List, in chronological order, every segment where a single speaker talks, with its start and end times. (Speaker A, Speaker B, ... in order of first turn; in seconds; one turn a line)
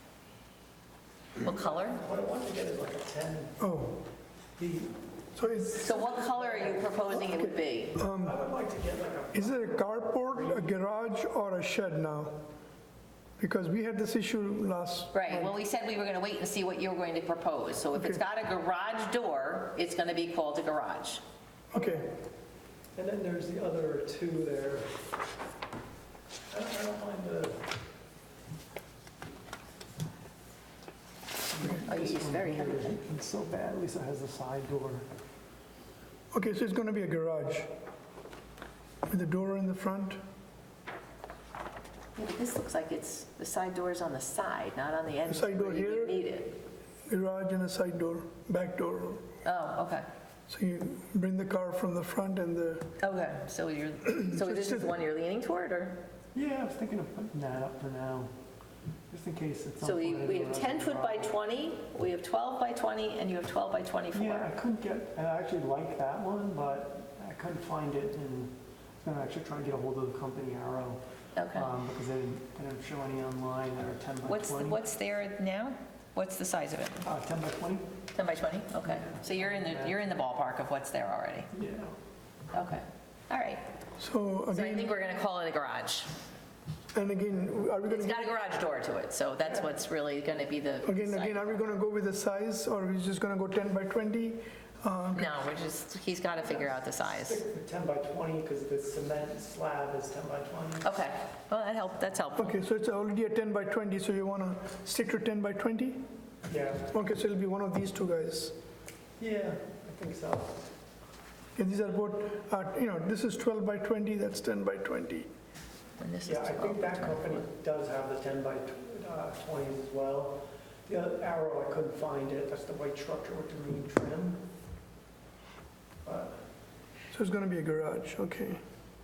Speaker A: 1.4-2.0
Speaker B: 1.9-3.6
Speaker C: 3.6-4.0
Speaker B: 4.6-5.0
Speaker C: 5.3-5.8
Speaker B: 5.5-7.3
Speaker A: 5.7-8.0
Speaker B: 8.0-10.7
Speaker C: 8.0-8.4
Speaker C: 9.3-12.4
Speaker C: 13.4-15.5
Speaker A: 15.1-21.2
Speaker C: 17.9-18.2
Speaker C: 21.7-22.1
Speaker B: 21.8-22.0
Speaker B: 22.9-24.9
Speaker B: 26.5-27.6
Speaker B: 31.5-35.0
Speaker A: 31.8-33.0
Speaker C: 36.3-37.7
Speaker C: 39.1-40.2
Speaker A: 42.1-46.6
Speaker C: 45.3-46.1
Speaker C: 47.1-49.2
Speaker A: 49.4-50.1
Speaker C: 50.5-52.9
Speaker A: 53.0-56.0
Speaker C: 54.2-54.9
Speaker B: 56.3-58.3
Speaker B: 59.1-61.3
Speaker A: 59.8-64.5
Speaker B: 64.1-71.0
Speaker A: 71.3-71.7
Speaker B: 71.5-74.8
Speaker A: 74.2-77.1
Speaker B: 77.0-77.9
Speaker A: 78.1-81.5
Speaker B: 78.8-79.9
Speaker B: 81.5-81.9
Speaker A: 82.5-83.6
Speaker C: 84.0-84.9
Speaker A: 84.5-86.1
Speaker C: 86.9-88.3
Speaker A: 87.9-91.6
Speaker C: 90.8-95.3
Speaker A: 95.1-97.4
Speaker B: 96.4-100.9
Speaker A: 100.8-102.5
Speaker C: 102.4-106.0
Speaker B: 106.5-106.9
Speaker C: 106.9-108.5
Speaker B: 109.2-110.6
Speaker C: 111.5-115.3
Speaker A: 116.0-117.4
Speaker B: 116.2-124.4
Speaker B: 126.0-126.4
Speaker C: 127.1-128.6